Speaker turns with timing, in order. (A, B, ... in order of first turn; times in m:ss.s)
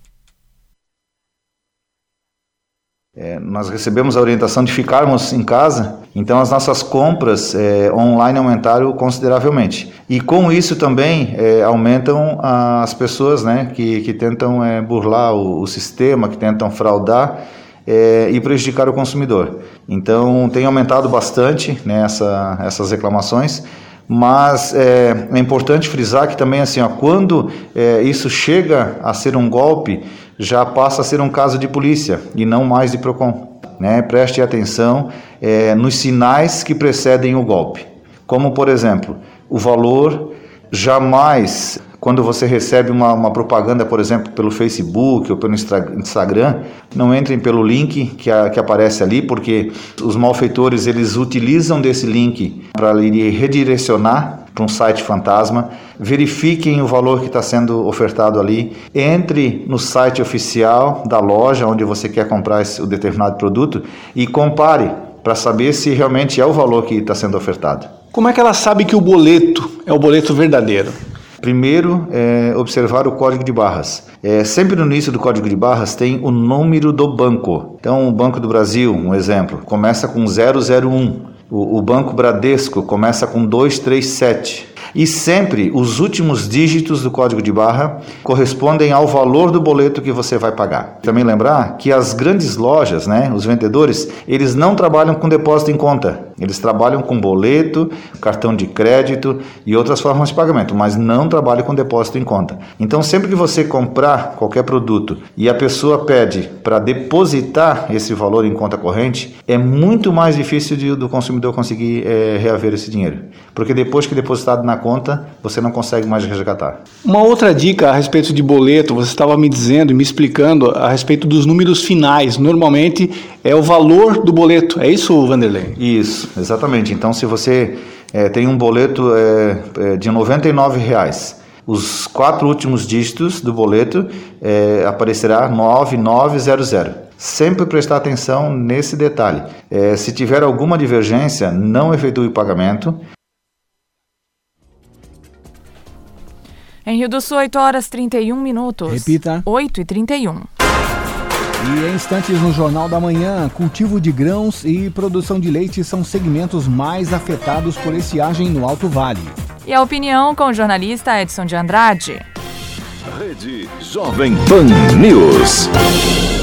0:03.2-1:07.9 A
1:08.1-1:11.0 B
1:11.4-1:56.8 A
1:57.0-2:05.8 B
2:05.8-2:23.0 A
2:26.8-2:30.5 C
2:28.9-2:29.4 D
2:31.6-2:39.4 D
2:39.6-2:42.2 C
2:43.1-2:45.7 E